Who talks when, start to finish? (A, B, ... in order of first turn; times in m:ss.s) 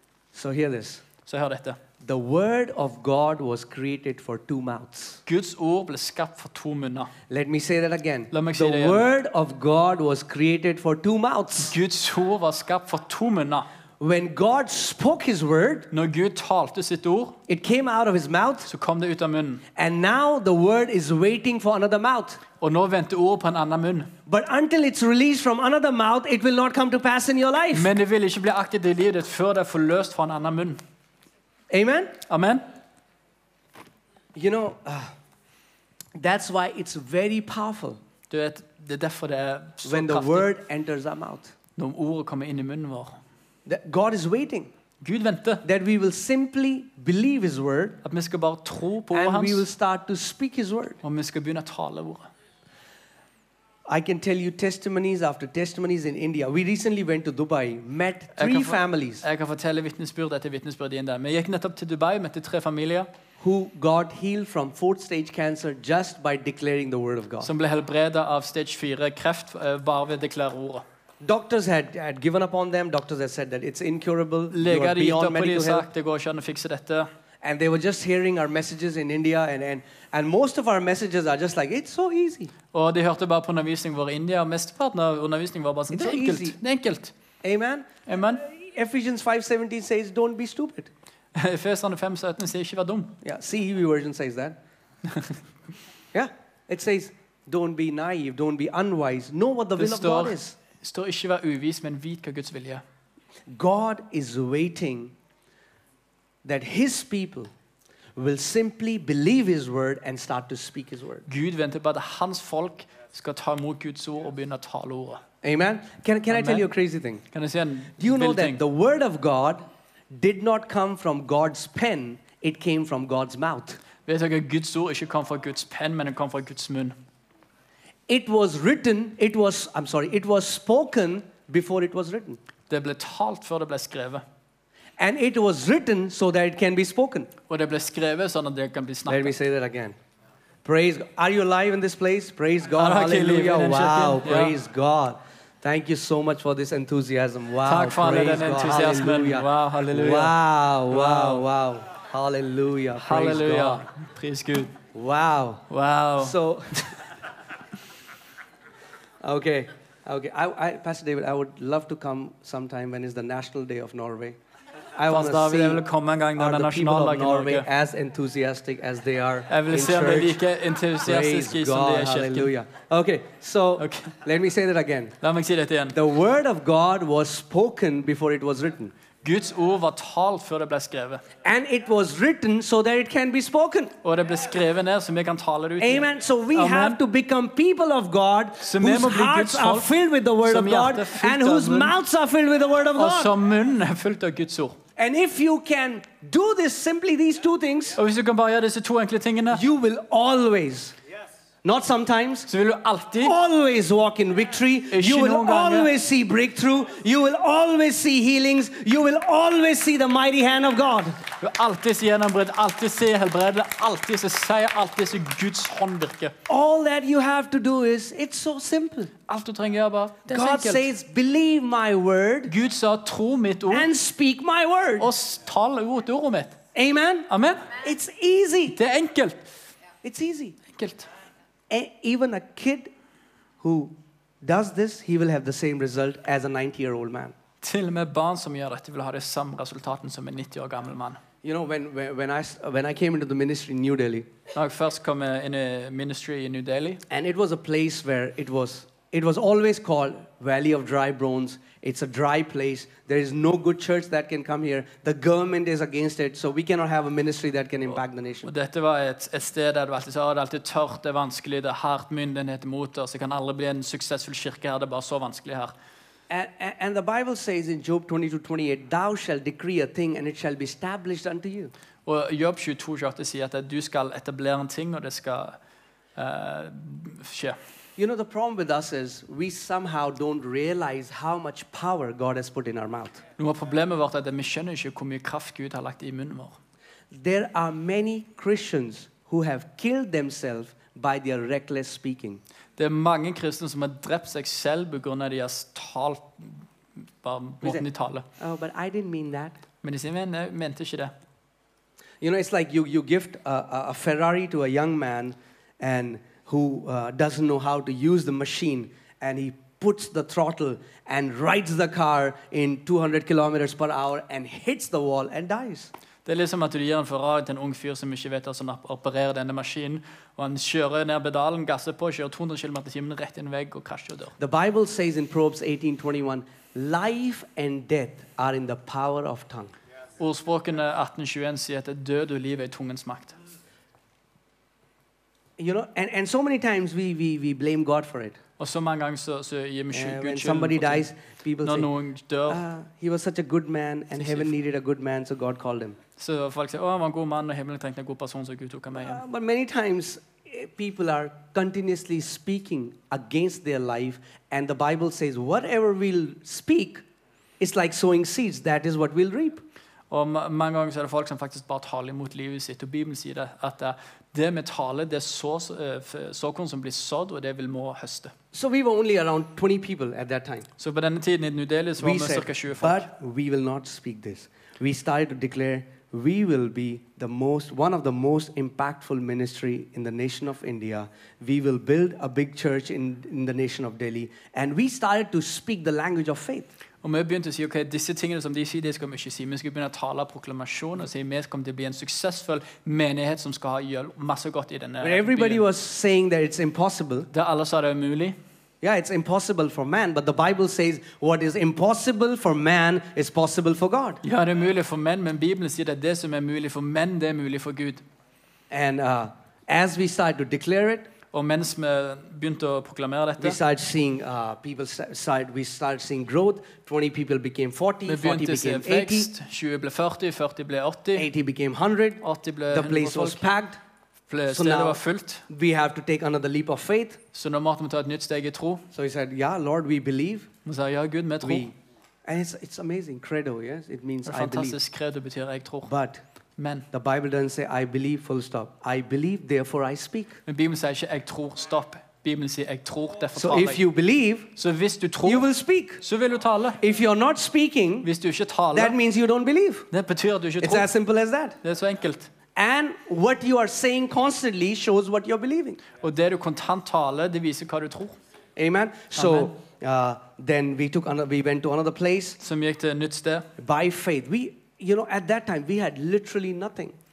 0:00.3-0:01.0 A
0:01.2-0:01.8 B
0:02.0-0:05.2 A
0:05.2-0:07.1 B
0:07.3-0:11.7 A
0:08.3-0:09.1 B
0:11.6-0:13.7 B
0:14.0-0:15.9 A
0:15.9-0:17.4 B
0:17.5-0:18.7 A
0:18.7-0:19.6 B
0:19.8-0:22.4 A
0:22.6-0:24.1 B
0:24.3-0:27.9 A
0:27.7-0:30.8 B
0:31.7-0:32.1 A
0:32.3-0:32.6 B
0:34.3-0:35.1 A
0:36.2-0:38.0 A
0:38.3-0:40.5 B
0:39.8-0:41.5 A
0:41.8-0:43.2 B
0:43.6-0:44.7 A
0:45.0-0:45.6 B
0:45.6-0:48.0 A
0:48.0-0:49.7 B
0:49.1-0:51.0 A
0:51.0-0:52.3 B
0:53.9-0:59.2 A
0:58.4-1:03.1 B
1:03.4-1:07.5 A
1:07.4-1:10.8 B
1:11.2-1:15.9 A
1:14.5-1:17.1 B
1:17.4-1:22.5 A
1:22.7-1:27.1 B
1:25.9-1:26.6 A
1:27.4-1:27.9 A
1:28.1-1:28.4 B
1:28.4-1:30.9 A
1:31.3-1:33.1 B
1:33.2-1:34.6 A
1:35.1-1:35.4 B
1:36.1-1:40.6 A
1:39.8-1:42.8 B
1:43.5-1:45.1 A
1:46.4-1:47.5 A
1:48.1-1:51.3 A
1:51.3-1:55.2 B
1:55.4-1:57.2 A
1:56.3-1:56.7 B
1:57.3-1:58.6 B
1:58.0-2:03.8 A
2:04.0-2:06.9 B
2:08.1-2:12.4 A
2:12.7-2:14.2 B
2:15.0-2:17.3 A
2:17.5-2:19.3 B
2:19.1-2:19.9 A
2:20.6-2:33.9 A
2:22.8-2:24.5 B
2:27.6-2:30.3 B
2:30.9-2:31.4 B
2:33.0-2:34.7 B
2:34.9-2:35.6 A
2:35.7-2:36.3 B
2:36.2-2:36.9 A
2:39.2-2:44.4 A
2:45.0-2:45.8 A
2:45.1-2:47.7 B
2:46.4-2:50.4 A
2:49.5-2:52.5 B
2:51.0-2:55.1 A
2:53.8-2:54.1 B
2:55.2-2:56.0 B
2:55.9-2:58.9 A
2:59.2-3:01.2 B
3:01.4-3:03.9 A
3:04.0-3:07.0 B
3:05.8-3:13.3 A
3:08.6-3:09.9 B
3:10.4-3:12.0 B
3:13.0-3:14.8 B
3:15.0-3:18.0 A
3:18.0-3:19.6 B
3:19.5-3:21.0 A
3:21.6-3:22.5 A
3:22.5-3:23.3 B
3:23.2-3:31.2 A
3:24.9-3:25.9 B
3:31.4-3:36.3 B
3:36.5-3:39.1 A
3:39.3-3:40.8 B
3:40.3-3:42.5 A
3:42.5-3:43.9 B
3:43.7-3:45.1 A
3:45.0-3:46.6 B
3:46.7-3:48.8 A
3:47.3-3:47.7 B
3:48.7-3:49.4 B
3:50.0-3:50.6 A
3:50.7-3:51.1 B
3:51.7-3:52.9 A
3:53.6-3:57.3 A
3:57.6-4:01.2 B
4:01.4-4:04.3 A
4:04.5-4:07.0 B
4:07.1-4:18.5 A
4:18.4-4:25.7 B
4:26.3-4:31.7 A
4:32.0-4:35.6 B
4:36.2-4:37.6 B
4:38.0-4:43.2 A
4:43.4-4:46.6 B
4:47.1-4:52.4 A
4:52.8-4:56.6 B
4:57.2-4:58.2 B
4:58.4-4:59.6 A
4:59.8-5:01.1 B
5:02.2-5:15.9 A
5:16.3-5:24.3 B
5:24.4-5:29.7 A
5:30.2-5:33.4 B
5:35.6-5:38.4 A
5:38.6-5:41.1 B
5:39.9-5:41.9 A
5:41.6-5:42.6 B
5:42.5-5:46.0 A
5:44.2-5:44.5 B
5:46.2-5:49.2 B
5:49.0-5:57.0 A
5:57.6-5:59.6 A
6:00.1-6:08.3 B
6:08.5-6:10.7 A
6:10.8-6:13.1 B
6:12.0-6:26.7 A
6:27.0-6:35.6 B
6:35.0-6:37.3 A
6:37.3-6:38.4 B
6:38.8-6:44.2 A
6:44.2-6:48.0 B
6:48.7-6:51.1 A
6:51.3-6:53.6 B
6:53.4-6:59.3 A
6:58.0-7:01.3 B
7:01.1-7:03.8 A
7:02.2-7:03.5 B
7:04.3-7:05.4 B
7:04.5-7:07.2 A
7:07.3-7:08.8 B
7:08.9-7:10.5 A
7:10.6-7:11.7 B
7:11.4-7:11.7 A
7:12.2-7:14.8 A
7:14.3-7:15.9 B
7:15.9-7:16.2 A
7:16.6-7:16.9 B
7:16.9-7:20.4 A
7:20.5-7:23.8 B
7:23.4-7:24.5 A
7:24.6-7:25.5 B
7:25.2-7:26.0 A
7:26.0-7:26.8 B
7:26.8-7:28.1 A
7:28.0-7:29.0 B
7:28.7-7:29.9 A
7:29.9-7:30.9 B
7:30.6-7:31.6 A
7:31.6-7:32.3 B
7:32.6-7:35.8 A
7:36.0-7:38.2 B
7:38.6-7:42.4 A
7:39.2-7:39.5 B
7:42.4-7:43.5 B
7:43.6-7:47.0 A